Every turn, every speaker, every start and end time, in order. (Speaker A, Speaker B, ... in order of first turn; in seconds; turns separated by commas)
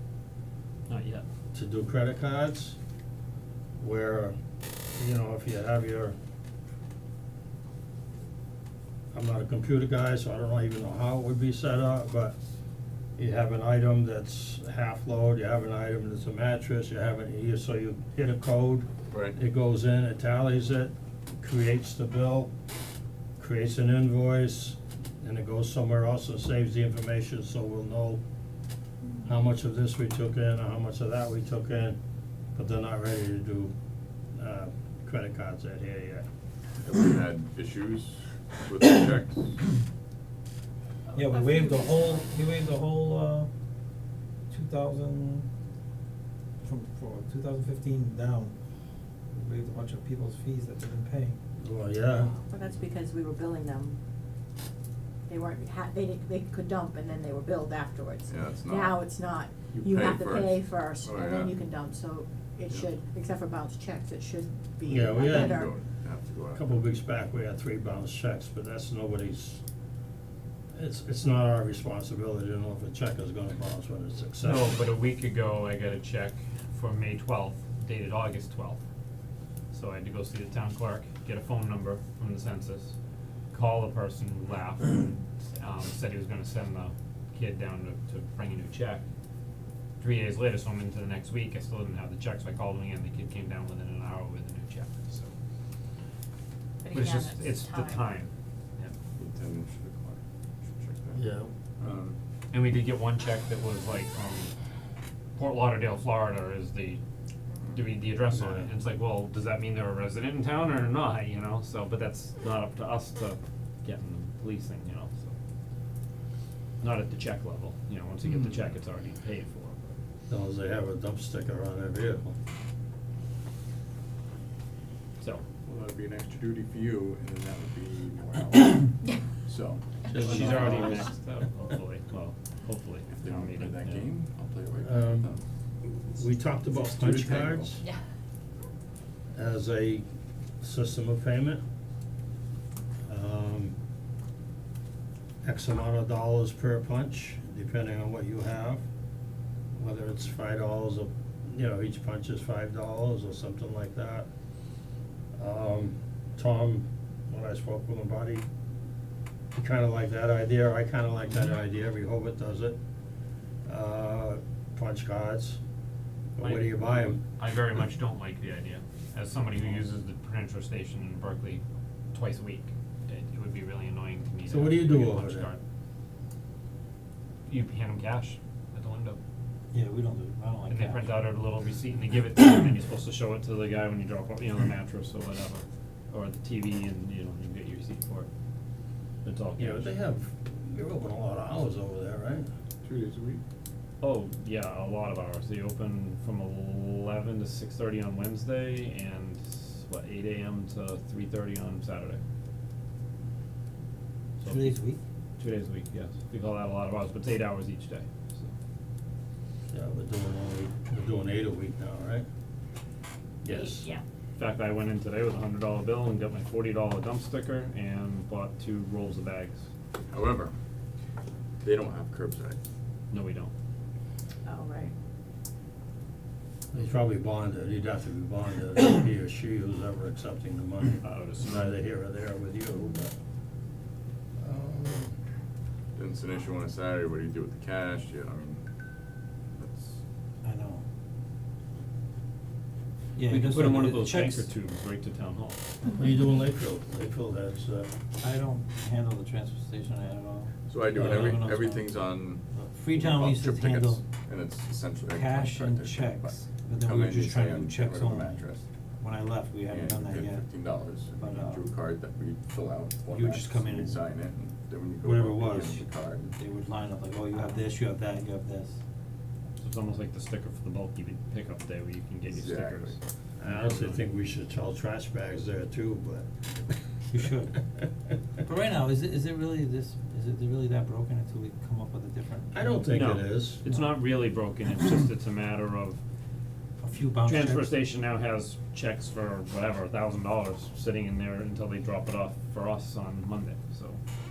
Speaker A: 0.9-1.2, Speaker B: 1.5-2.8, Speaker B: 3.8-4.3, Speaker B: 5.0-6.2, Speaker B: 9.1-12.4, Speaker B: 13.2-22.5, Speaker C: 19.1-19.4, Speaker B: 23.4-28.2, Speaker B: 29.2-32.0, Speaker B: 32.5-33.7, Speaker B: 34.3-36.3, Speaker C: 36.8-39.6, Speaker D: 41.1-42.3, Speaker E: 41.1-43.5, Speaker E: 44.5-45.5, Speaker E: 46.6-48.5, Speaker E: 49.3-51.4, Speaker B: 51.6-52.3, Speaker D: 52.1-54.0, Speaker D: 55.3-65.8, Speaker C: 58.3-59.0, Speaker C: 59.7-61.6, Speaker B: 64.9-65.5, Speaker C: 65.5-66.6, Speaker B: 66.5-69.6, Speaker B: 70.7-74.8, Speaker A: 74.4-78.8, Speaker A: 79.7-82.9, Speaker A: 83.5-89.0, Speaker A: 90.0-95.3, Speaker D: 96.8-98.0, Speaker A: 96.9-98.9, Speaker C: 99.2-101.2, Speaker B: 101.1-101.5, Speaker C: 101.8-102.2, Speaker A: 102.5-104.5, Speaker A: 105.3-107.0, Speaker A: 107.7-115.3, Speaker B: 108.3-108.7, Speaker A: 116.8-120.0, Speaker B: 120.3-122.3, Speaker C: 125.6-130.6, Speaker B: 130.1-131.1, Speaker A: 130.1-134.1, Speaker C: 133.1-135.4, Speaker B: 134.8-135.3, Speaker B: 136.1-137.8, Speaker C: 136.8-137.8, Speaker B: 139.3-140.0, Speaker B: 140.6-141.6, Speaker B: 143.1-143.7, Speaker B: 145.4-148.8, Speaker B: 149.7-154.3, Speaker B: 155.3-158.5, Speaker B: 159.5-162.8, Speaker B: 163.6-165.6, Speaker B: 166.3-167.2, Speaker A: 166.4-171.6, Speaker A: 172.1-175.6, Speaker B: 174.5-175.5, Speaker A: 177.5-179.2, Speaker E: 179.7-181.2, Speaker A: 180.7-188.3, Speaker A: 189.2-189.9, Speaker B: 189.6-192.5, Speaker C: 192.8-193.4, Speaker A: 194.0-202.2, Speaker A: 204.4-204.7, Speaker E: 204.4-205.0, Speaker A: 205.4-208.5, Speaker B: 209.7-212.2, Speaker B: 213.4-213.9, Speaker D: 213.5-214.0, Speaker A: 214.4-219.6, Speaker C: 220.1-220.5, Speaker C: 221.6-222.6, Speaker A: 223.1-223.5, Speaker D: 224.4-224.9, Speaker B: 226.7-233.1, Speaker A: 231.0-231.8, Speaker B: 234.4-235.1, Speaker C: 235.9-238.6, Speaker C: 239.6-240.0, Speaker E: 240.4-240.8, Speaker E: 243.1-244.5, Speaker A: 243.2-245.6, Speaker B: 246.0-247.9, Speaker E: 248.2-251.9, Speaker C: 250.7-258.6, Speaker E: 252.5-254.0, Speaker E: 255.1-258.4, Speaker E: 259.0-260.4, Speaker C: 259.7-266.3, Speaker E: 261.1-261.7, Speaker E: 263.1-264.0, Speaker E: 265.0-268.8, Speaker A: 269.6-274.0, Speaker C: 272.3-273.0, Speaker B: 273.4-276.3, Speaker E: 277.1-277.6, Speaker E: 278.4-283.0, Speaker B: 282.5-283.6, Speaker A: 282.9-286.0, Speaker E: 286.8-287.7, Speaker A: 287.2-294.0